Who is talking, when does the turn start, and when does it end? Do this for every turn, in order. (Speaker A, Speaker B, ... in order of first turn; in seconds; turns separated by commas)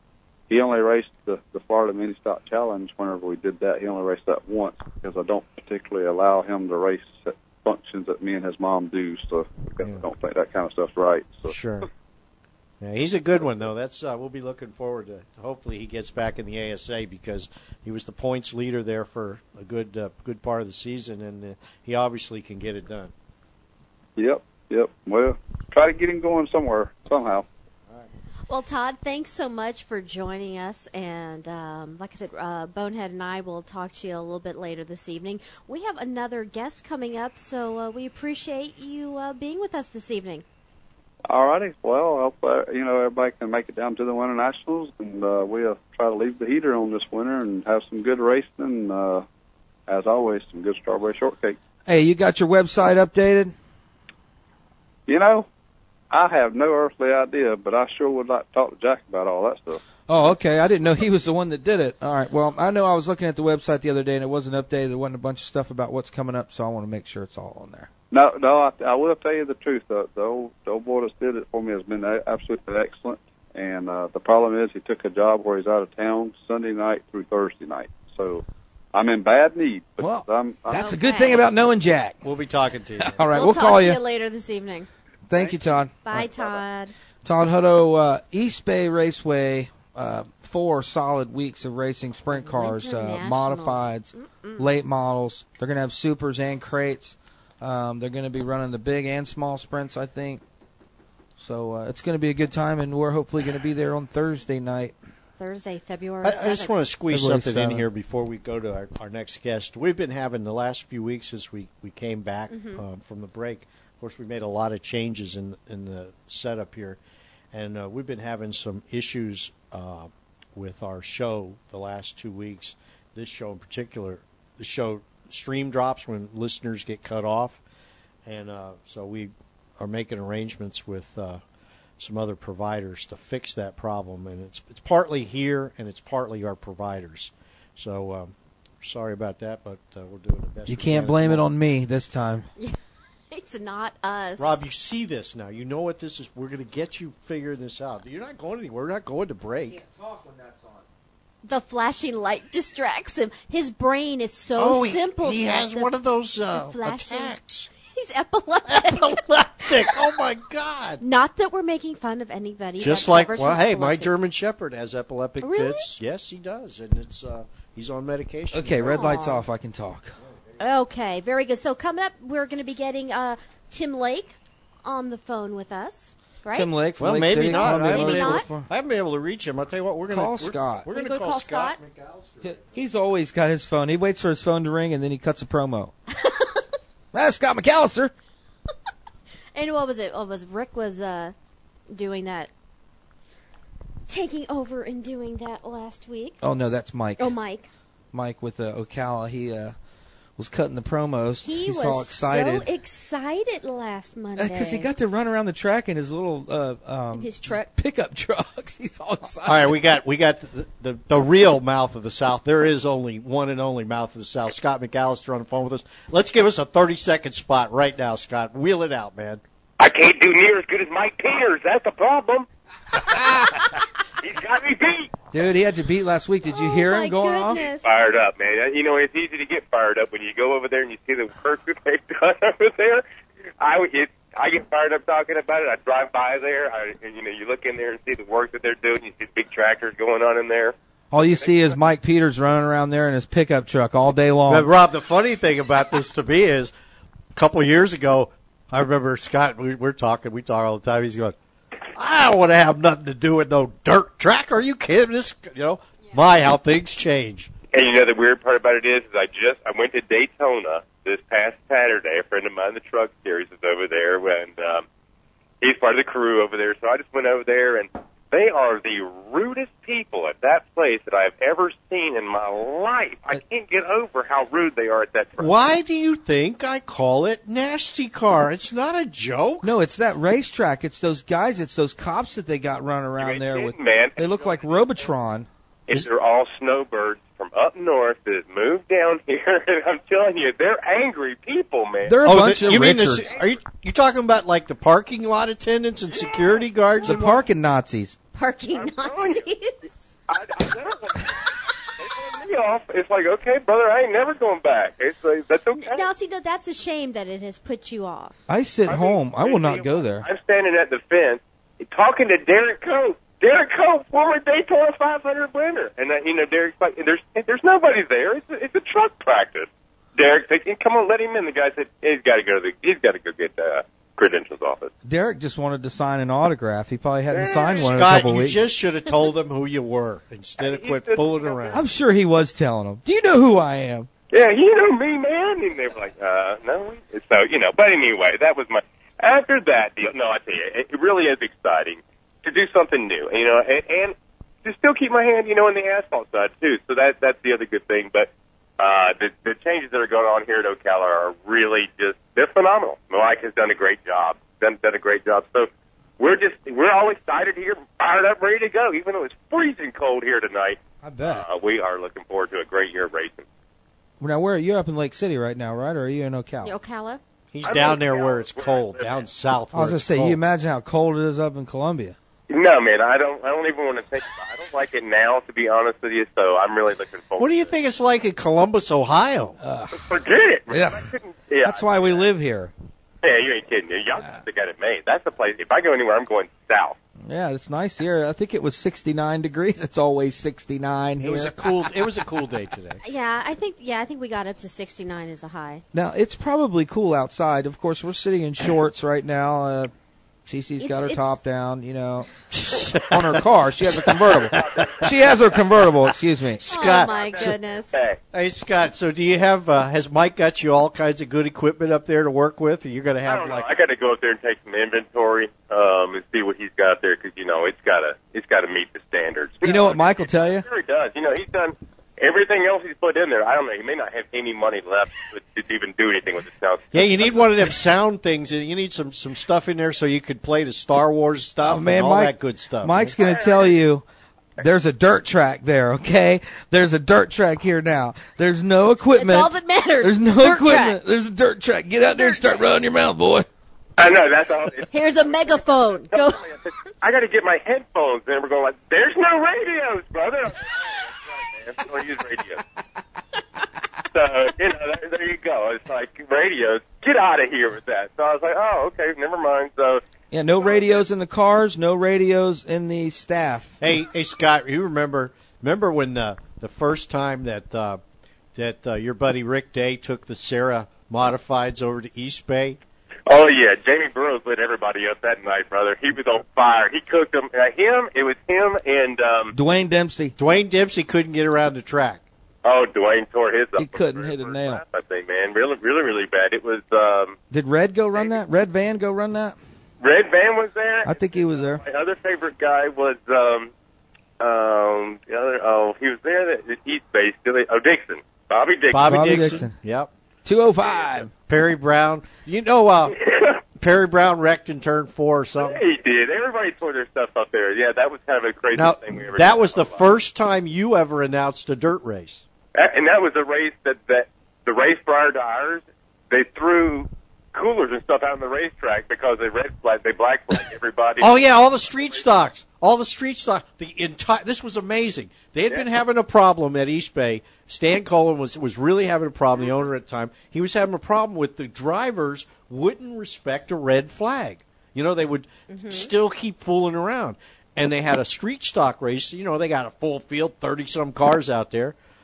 Speaker A: 0.5-11.5, Speaker B: 9.8-10.1, Speaker B: 11.4-11.9, Speaker B: 12.8-23.1, Speaker A: 24.2-27.5, Speaker C: 28.5-40.4, Speaker A: 41.3-49.3, Speaker A: 49.9-51.6, Speaker D: 51.9-53.5, Speaker A: 55.1-55.5, Speaker A: 56.1-59.8, Speaker D: 60.1-67.9, Speaker A: 68.1-80.9, Speaker D: 80.0-82.2, Speaker C: 80.7-81.4, Speaker B: 82.2-83.3, Speaker D: 83.0-84.0, Speaker C: 83.3-84.9, Speaker D: 85.3-86.3, Speaker C: 86.0-86.9, Speaker D: 87.2-100.4, Speaker C: 92.4-94.7, Speaker D: 101.4-105.0, Speaker C: 105.4-106.8, Speaker B: 106.2-117.0, Speaker D: 107.1-107.9, Speaker C: 112.5-112.8, Speaker B: 117.5-127.6, Speaker B: 128.3-131.4, Speaker B: 132.0-141.4, Speaker D: 140.7-142.5, Speaker C: 143.3-144.6, Speaker B: 144.4-149.8, Speaker D: 149.7-150.8, Speaker C: 151.4-155.9, Speaker B: 154.6-157.7, Speaker C: 156.5-159.7, Speaker B: 158.7-161.0, Speaker C: 161.0-164.1, Speaker B: 162.8-169.1, Speaker C: 165.4-165.9, Speaker D: 168.5-170.2, Speaker C: 168.8-169.4, Speaker B: 170.2-170.6, Speaker C: 170.6-176.7, Speaker D: 176.5-178.7, Speaker B: 177.0-182.8, Speaker C: 177.3-178.5, Speaker D: 180.1-180.9, Speaker C: 180.9-181.8, Speaker D: 182.4-185.9, Speaker C: 186.2-186.6, Speaker D: 187.1-188.1, Speaker C: 189.6-191.3, Speaker C: 191.9-192.5, Speaker C: 194.1-196.4, Speaker D: 196.4-197.4, Speaker C: 197.2-197.7, Speaker D: 198.1-199.8, Speaker D: 200.4-202.7, Speaker C: 201.4-204.9, Speaker D: 204.4-209.8, Speaker C: 207.1-207.7, Speaker B: 209.5-219.4, Speaker E: 219.8-222.5, Speaker E: 224.2-225.1, Speaker D: 225.3-227.7, Speaker C: 226.5-227.9, Speaker E: 227.8-233.1, Speaker E: 233.6-240.8, Speaker D: 241.1-244.7, Speaker E: 241.3-241.8, Speaker B: 244.5-246.7, Speaker B: 247.3-251.4, Speaker B: 251.9-257.5, Speaker E: 257.7-264.9, Speaker E: 265.6-275.5, Speaker B: 275.4-279.7, Speaker D: 279.6-285.5, Speaker E: 283.2-285.1, Speaker E: 285.9-292.2, Speaker D: 292.1-293.4, Speaker B: 292.2-297.4, Speaker E: 296.1-297.3, Speaker D: 297.1-298.2, Speaker C: 298.3-299.9, Speaker E: 298.7-299.5, Speaker E: 300.3-301.4, Speaker E: 302.0-306.1, Speaker C: 305.7-308.4, Speaker D: 308.5-310.3, Speaker E: 308.9-324.9, Speaker D: 325.1-328.6, Speaker E: 327.3-328.0, Speaker B: 327.8-331.8, Speaker E: 330.6-331.9, Speaker D: 331.7-334.1, Speaker E: 334.3-363.4, Speaker D: 361.0-361.5, Speaker D: 364.2-366.8, Speaker C: 366.6-367.2, Speaker B: 367.5-370.4, Speaker E: 367.6-369.3, Speaker D: 369.7-372.2, Speaker E: 372.5-377.7, Speaker B: 377.4-379.6, Speaker D: 379.6-380.2, Speaker E: 379.9-382.3, Speaker D: 380.7-381.1, Speaker D: 381.6-382.7, Speaker E: 383.2-387.0, Speaker D: 387.2-391.6, Speaker B: 391.2-393.0, Speaker C: 393.0-395.8, Speaker D: 395.9-399.9, Speaker D: 400.5-402.3, Speaker C: 400.8-401.4, Speaker B: 402.5-405.1, Speaker D: 403.0-406.6, Speaker E: 404.4-405.4, Speaker B: 406.6-407.6, Speaker C: 406.7-407.9, Speaker E: 406.9-408.2, Speaker B: 408.3-413.7, Speaker E: 413.2-427.5, Speaker D: 419.6-420.7, Speaker B: 426.9-433.1, Speaker D: 431.6-434.0, Speaker E: 433.1-433.8, Speaker D: 434.6-443.5, Speaker C: 439.1-441.0, Speaker C: 442.1-442.7, Speaker E: 444.0-452.6, Speaker C: 444.9-446.9, Speaker E: 454.1-460.0, Speaker D: 460.3-463.7, Speaker E: 460.6-461.1, Speaker B: 463.8-468.0, Speaker B: 468.6-472.8, Speaker E: 473.3-479.5, Speaker D: 479.5-480.4, Speaker B: 480.4-482.2, Speaker E: 482.6-487.4, Speaker D: 483.8-484.8, Speaker D: 487.5-489.6, Speaker E: 490.0-493.7, Speaker D: 491.1-491.8, Speaker E: 494.4-499.4, Speaker B: 498.9-500.1, Speaker D: 499.0-499.8, Speaker D: 500.4-501.3, Speaker B: 501.3-503.2, Speaker E: 503.1-503.6, Speaker B: 503.8-505.8, Speaker E: 505.6-510.1, Speaker B: 508.8-512.4, Speaker E: 512.8-522.2, Speaker B: 521.2-542.0, Speaker C: 535.7-536.1